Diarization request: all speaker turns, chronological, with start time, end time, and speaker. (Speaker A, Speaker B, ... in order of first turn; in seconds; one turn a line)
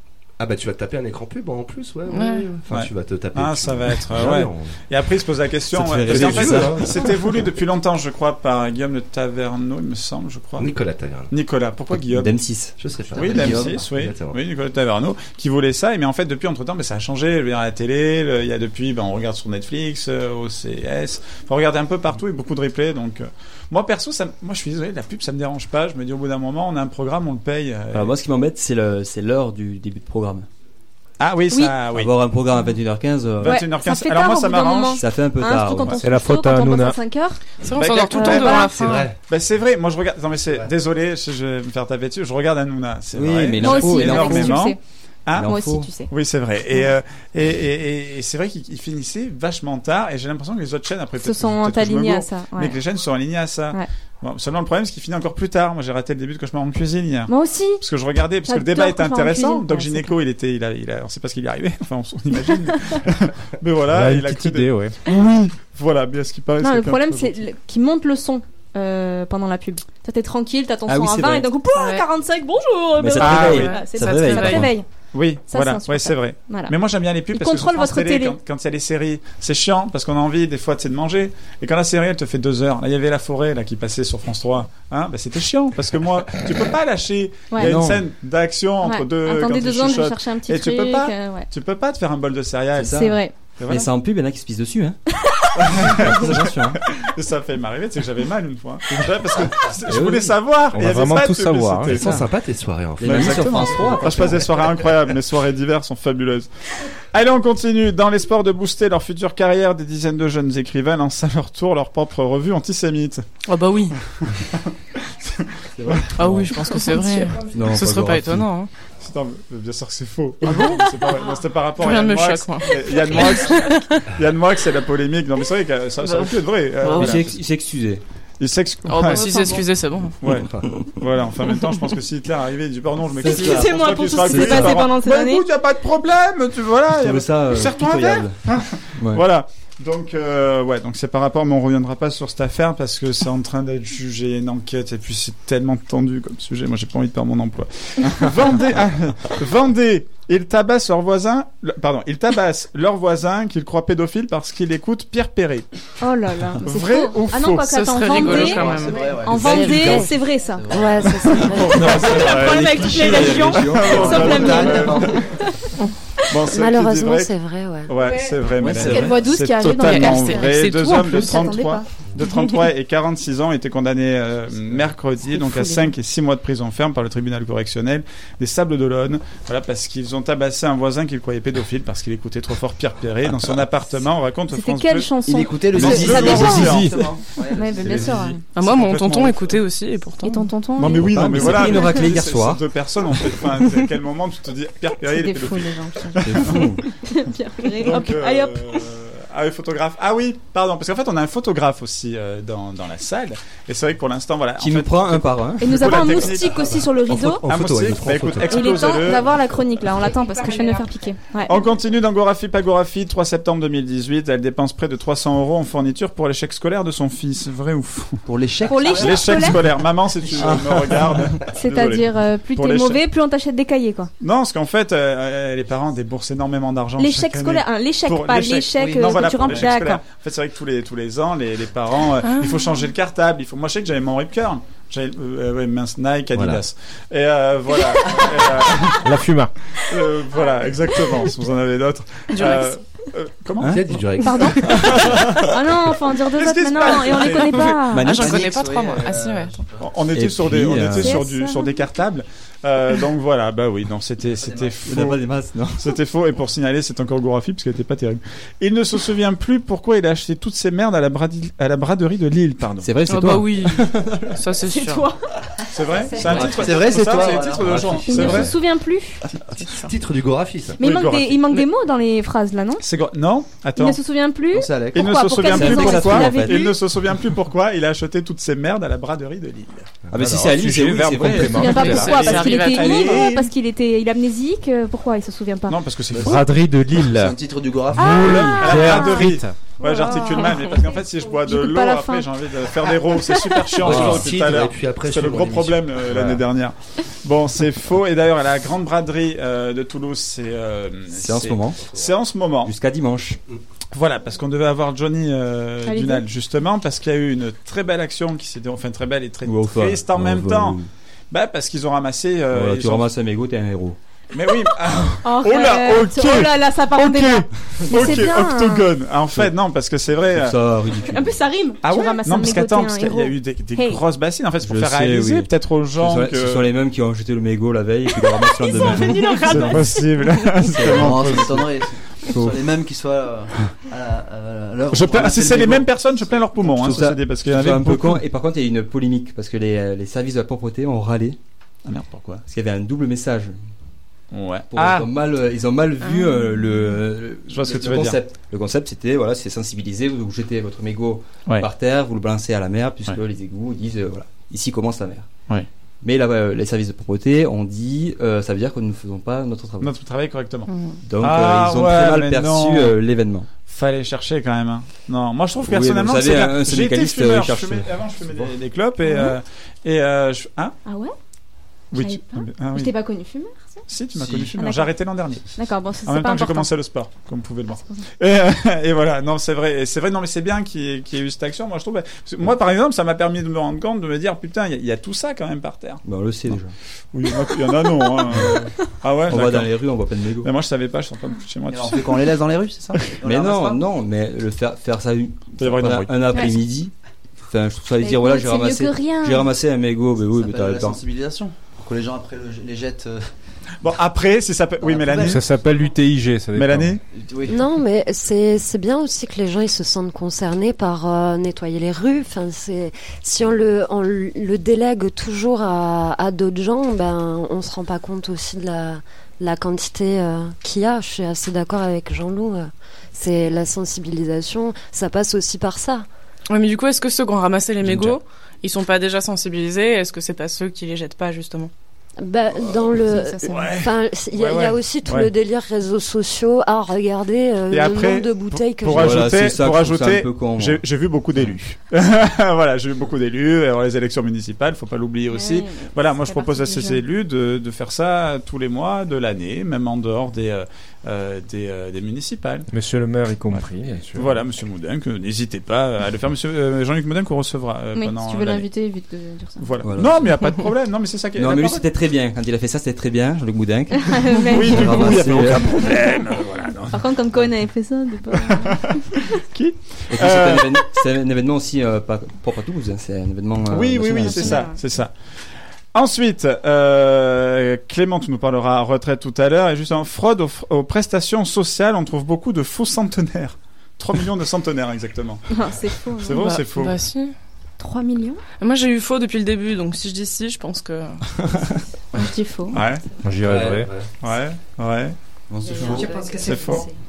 Speaker A: 0.4-4.8
Speaker B: 2.1-2.5
Speaker C: 2.7-10.7
Speaker D: 5.7-6.9
Speaker A: 6.0-7.4
Speaker A: 10.6-11.3
Speaker C: 11.3-12.4
Speaker D: 11.9-13.8
Speaker A: 12.8-14.4
Speaker C: 13.1-28.1
Speaker D: 27.9-30.5
Speaker C: 31.2-32.1
Speaker E: 31.5-31.8
Speaker D: 31.9-33.6
Speaker C: 33.4-35.0
Speaker E: 33.4-37.4
Speaker D: 35.0-36.0
Speaker F: 36.0-37.0
Speaker B: 37.6-39.1
Speaker C: 37.7-67.4
Speaker E: 38.1-39.0
Speaker A: 38.8-39.1
Speaker D: 43.1-44.7
Speaker E: 43.5-44.8
Speaker D: 45.4-45.9
Speaker E: 45.4-46.1
Speaker E: 51.2-52.8
Speaker E: 57.3-57.8
Speaker E: 58.5-60.2
Speaker F: 63.9-65.0
Speaker E: 66.6-74.9
Speaker D: 70.8-71.5
Speaker B: 71.7-72.0
Speaker D: 73.0-74.8
Speaker C: 73.2-73.9
Speaker B: 74.0-74.7
Speaker C: 75.1-93.1
Speaker E: 75.5-76.7
Speaker E: 77.3-78.4
Speaker E: 87.5-87.9
Speaker D: 87.6-88.0
Speaker E: 88.8-91.5
Speaker D: 92.8-95.0
Speaker E: 92.9-93.3
Speaker C: 93.6-93.9
Speaker C: 95.5-102.2
Speaker D: 95.8-96.8
Speaker D: 99.8-100.4
Speaker F: 100.7-102.0
Speaker A: 101.9-104.2
Speaker D: 102.0-102.3
Speaker D: 103.0-104.8
Speaker C: 103.0-106.5
Speaker C: 107.1-113.2
Speaker B: 113.5-113.9
Speaker C: 114.2-114.6
Speaker C: 115.1-116.8
Speaker D: 115.8-116.5
Speaker B: 116.1-118.7
Speaker D: 117.5-118.5
Speaker C: 119.0-127.4
Speaker B: 121.8-124.0
Speaker B: 126.0-127.2
Speaker D: 126.9-128.0
Speaker C: 128.4-129.4
Speaker B: 128.9-130.1
Speaker E: 129.0-129.7
Speaker C: 130.2-155.7
Speaker D: 133.2-134.9
Speaker E: 133.2-135.4
Speaker D: 136.9-138.4
Speaker D: 139.0-139.2
Speaker E: 156.0-165.7
Speaker C: 156.6-157.8
Speaker B: 157.7-159.1
Speaker G: 158.3-161.5
Speaker H: 159.3-160.1
Speaker H: 160.7-161.8
Speaker C: 161.4-165.3
Speaker D: 161.7-164.7
Speaker G: 162.1-162.5
Speaker G: 163.8-165.2
Speaker C: 166.3-167.3
Speaker H: 166.5-167.9
Speaker C: 167.9-185.1
Speaker E: 168.0-171.8
Speaker D: 168.6-169.2
Speaker B: 169.6-171.5
Speaker E: 175.3-175.9
Speaker E: 184.5-186.9
Speaker G: 185.2-188.4
Speaker C: 185.7-187.1
Speaker D: 185.7-187.0
Speaker E: 187.5-188.4
Speaker C: 187.9-189.6
Speaker B: 188.5-190.4
Speaker E: 190.2-192.1
Speaker C: 190.8-196.8
Speaker D: 190.9-192.6
Speaker E: 195.0-198.8
Speaker D: 196.2-196.8
Speaker C: 197.8-206.8
Speaker D: 204.6-205.8
Speaker E: 205.6-207.4
Speaker A: 207.1-209.1
Speaker C: 207.4-209.3
Speaker E: 208.4-211.5
Speaker C: 211.4-218.2
Speaker G: 218.2-219.5
Speaker E: 218.6-219.7
Speaker C: 218.8-223.0
Speaker G: 220.4-220.8
Speaker E: 221.5-224.1
Speaker C: 224.2-239.1
Speaker E: 227.0-230.0
Speaker B: 232.2-232.7
Speaker A: 236.3-236.6
Speaker F: 239.0-239.5
Speaker C: 239.8-243.8
Speaker E: 242.3-242.6
Speaker D: 243.6-244.0
Speaker A: 243.6-245.4
Speaker E: 244.2-248.3
Speaker C: 244.5-247.8
Speaker D: 247.9-248.6
Speaker B: 247.9-249.6
Speaker G: 248.0-249.9
Speaker C: 249.8-255.2
Speaker D: 250.1-251.1
Speaker E: 250.8-251.7
Speaker G: 254.2-254.8
Speaker D: 254.8-255.9
Speaker C: 255.8-263.0
Speaker D: 262.8-264.4
Speaker B: 263.1-265.1
Speaker E: 264.6-265.3
Speaker C: 265.7-268.5
Speaker E: 265.9-269.2
Speaker G: 266.1-268.5
Speaker D: 266.4-267.0
Speaker D: 268.2-268.5
Speaker A: 269.7-270.8
Speaker E: 270.8-272.8
Speaker C: 270.8-271.4
Speaker C: 272.8-274.0
Speaker E: 273.8-276.8
Speaker G: 274.5-275.1
Speaker C: 274.9-279.9
Speaker D: 275.4-276.7
Speaker D: 280.1-282.3
Speaker F: 280.1-282.1
Speaker C: 281.3-283.5
Speaker E: 281.4-285.8
Speaker B: 281.9-283.3
Speaker C: 285.7-286.6
Speaker F: 286.1-287.3
Speaker G: 286.9-288.5
Speaker F: 287.9-289.5
Speaker E: 288.0-294.0
Speaker C: 288.3-302.7
Speaker D: 293.8-294.3
Speaker A: 293.8-296.4
Speaker D: 301.1-301.9
Speaker D: 302.6-303.4
Speaker C: 303.9-310.8
Speaker E: 305.8-306.2
Speaker D: 309.4-310.9
Speaker C: 311.3-313.1
Speaker D: 312.5-314.0
Speaker C: 314.3-320.6
Speaker E: 315.2-318.9
Speaker D: 320.3-321.4
Speaker E: 320.9-324.0
Speaker C: 321.8-326.7
Speaker D: 324.6-330.0
Speaker E: 328.1-330.5
Speaker C: 328.8-331.9
Speaker D: 330.6-331.7
Speaker G: 330.9-337.0
Speaker D: 332.2-332.7
Speaker C: 334.9-338.2
Speaker D: 336.8-341.4
Speaker C: 341.9-342.4
Speaker D: 342.5-343.6
Speaker C: 344.3-345.1
Speaker D: 344.7-355.3
Speaker B: 346.0-346.4
Speaker C: 347.5-348.2
Speaker D: 356.0-359.9
Speaker C: 359.8-362.9
Speaker D: 361.0-363.5
Speaker C: 363.6-370.8
Speaker D: 365.6-368.5
Speaker E: 369.0-369.4
Speaker E: 370.8-371.1
Speaker C: 371.9-372.9
Speaker E: 371.9-373.8
Speaker C: 373.9-375.4
Speaker E: 374.5-374.9
Speaker E: 375.5-376.7
Speaker C: 376.0-386.5
Speaker D: 386.0-386.7
Speaker C: 387.1-389.8
Speaker E: 388.1-388.7
Speaker D: 389.3-390.5
Speaker C: 390.4-392.4
Speaker G: 391.7-393.8
Speaker D: 393.2-396.9
Speaker C: 395.6-396.5
Speaker E: 396.3-396.6
Speaker D: 397.5-401.0
Speaker E: 398.0-399.5
Speaker G: 400.3-403.3
Speaker C: 403.8-405.4
Speaker G: 404.8-405.5
Speaker F: 405.2-407.0
Speaker C: 406.5-407.0
Speaker G: 407.1-407.6
Speaker H: 407.5-426.1
Speaker B: 426.5-431.7
Speaker H: 432.2-439.2
Speaker E: 433.0-433.6
Speaker C: 433.4-435.3
Speaker C: 437.7-452.7
Speaker D: 438.9-440.8
Speaker E: 445.3-447.0
Speaker F: 452.7-454.4
Speaker C: 454.1-458.7
Speaker E: 457.9-459.8
Speaker C: 459.6-461.9
Speaker D: 459.8-460.4
Speaker D: 461.4-465.8
Speaker E: 463.9-466.0
Speaker C: 464.4-467.1
Speaker E: 466.9-468.9
Speaker C: 468.4-470.9
Speaker D: 470.1-474.6
Speaker C: 473.7-475.1
Speaker E: 474.1-474.8
Speaker C: 475.9-485.4
Speaker E: 485.5-486.4
Speaker C: 486.2-486.9
Speaker B: 486.3-487.3
Speaker E: 487.8-488.4
Speaker B: 488.6-491.2
Speaker E: 492.1-492.8
Speaker C: 492.7-493.0
Speaker F: 493.2-493.9
Speaker A: 493.4-494.1
Speaker C: 494.2-495.1
Speaker D: 495.5-496.2
Speaker E: 495.7-496.9
Speaker C: 495.8-496.9